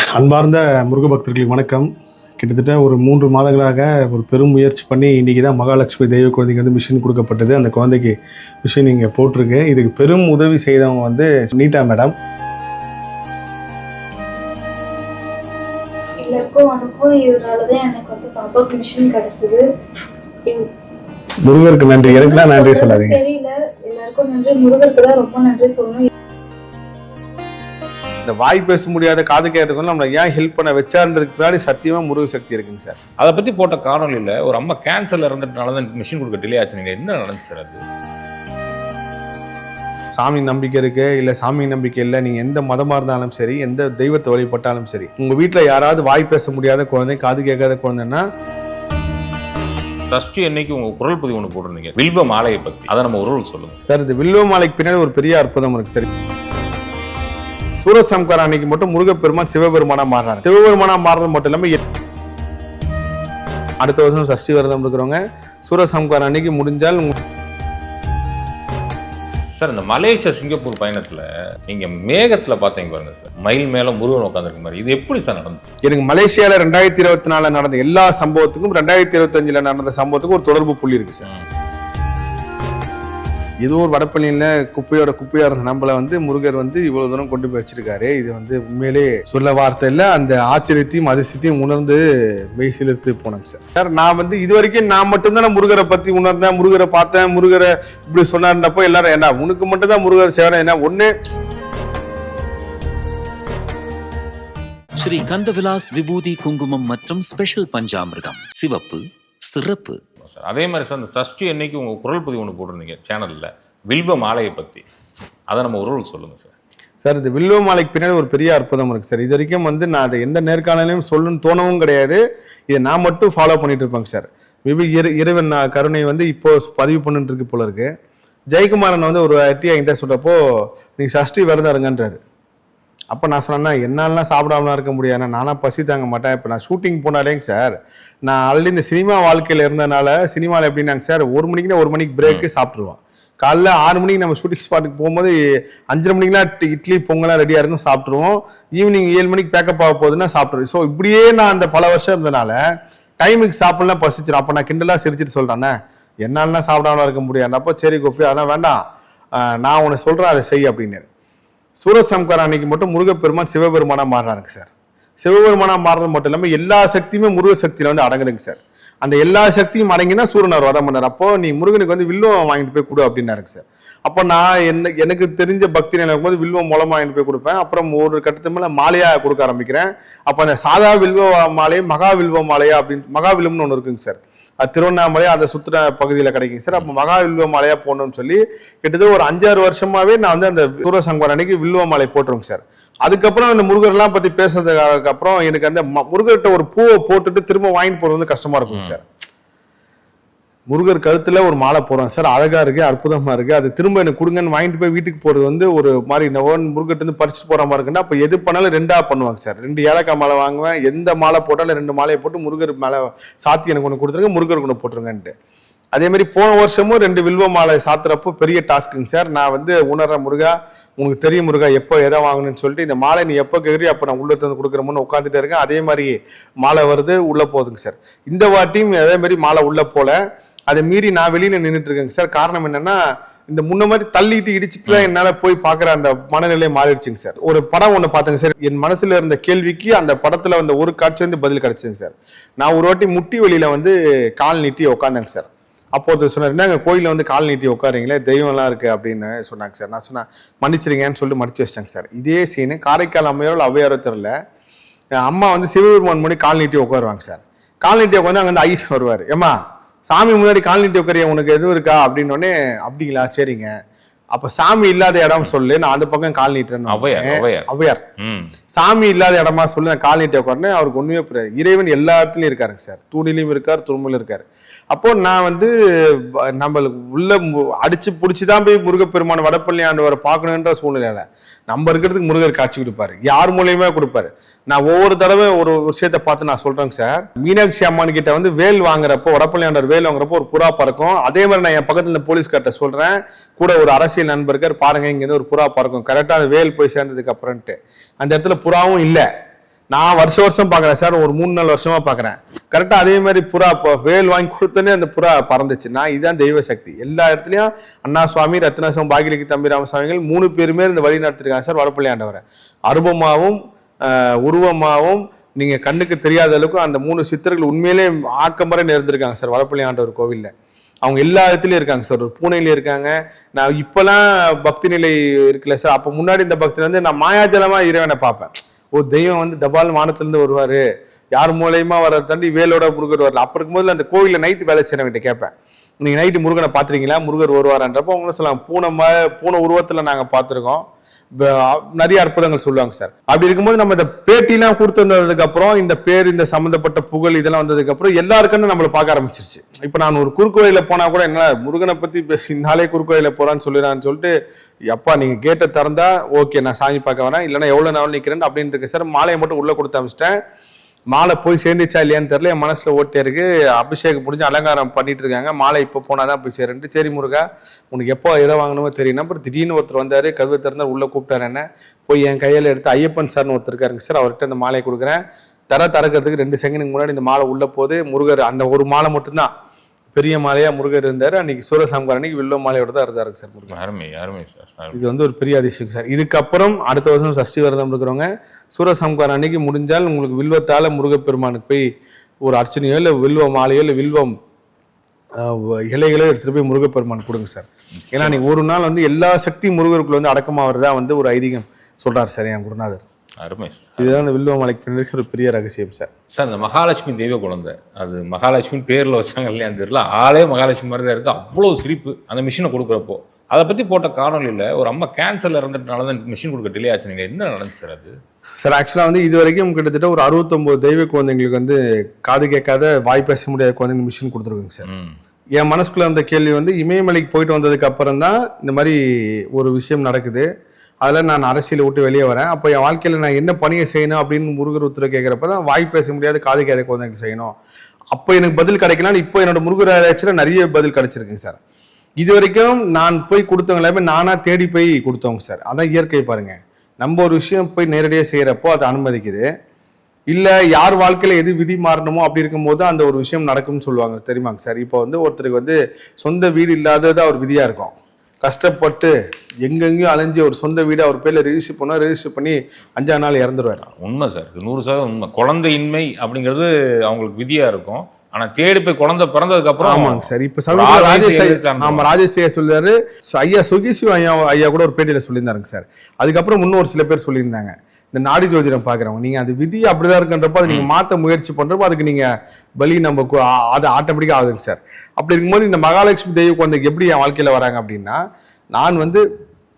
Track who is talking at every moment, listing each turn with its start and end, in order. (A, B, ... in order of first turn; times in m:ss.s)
0:00.2-0:12.1 A
0:16.2-0:19.6 B
0:21.4-0:23.2 A
0:22.0-0:26.1 B
0:28.2-0:33.0 A
0:33.2-0:37.8 C
0:40.2-0:48.2 A
0:50.1-0:53.9 C
0:53.9-0:56.1 A
0:57.8-1:01.8 A
1:03.8-1:07.2 A
1:09.5-1:15.7 C
1:15.8-1:21.3 A
1:23.6-1:32.0 A
1:32.6-1:41.1 A
1:45.0-1:50.0 D
1:50.2-1:54.8 C
1:55.5-1:56.5 C
1:57.0-2:07.9 A
2:08.5-2:10.4 A
2:11.0-2:12.2 A
2:13.1-2:25.3 A
2:25.9-2:32.6 A
2:33.2-2:38.8 A
2:39.4-2:41.1 A
2:41.8-2:44.7 A
2:45.2-3:19.0 A
3:18.7-3:19.0 C
3:20.7-3:35.3 A
3:35.9-3:50.2 A
3:50.7-3:53.0 A
3:53.5-4:14.3 A
4:15.2-4:23.7 A
4:24.3-4:28.0 A
4:26.9-4:28.5 C
4:28.7-4:59.3 A
4:59.9-5:20.5 A
5:21.0-5:40.8 A
5:41.4-5:54.3 A
5:54.9-6:00.4 A
6:01.1-6:19.5 A
6:20.1-6:23.8 A
6:23.7-6:25.1 C
6:24.9-6:31.9 A
6:32.4-6:34.3 A
6:35.4-6:43.0 A
6:38.0-6:38.5 C
6:43.4-6:44.2 C
6:44.0-6:46.1 A
6:46.3-6:58.2 C
6:58.6-7:04.9 A
7:04.9-7:05.2 C
7:05.6-7:09.0 A
7:09.5-7:10.5 A
7:11.0-7:17.5 A
7:18.1-7:21.6 A
7:22.2-7:29.4 A
7:30.3-7:39.1 A
7:39.6-7:43.8 A
7:43.8-7:52.1 C
7:49.8-8:02.3 A
8:02.8-8:08.2 A
8:08.7-8:09.2 A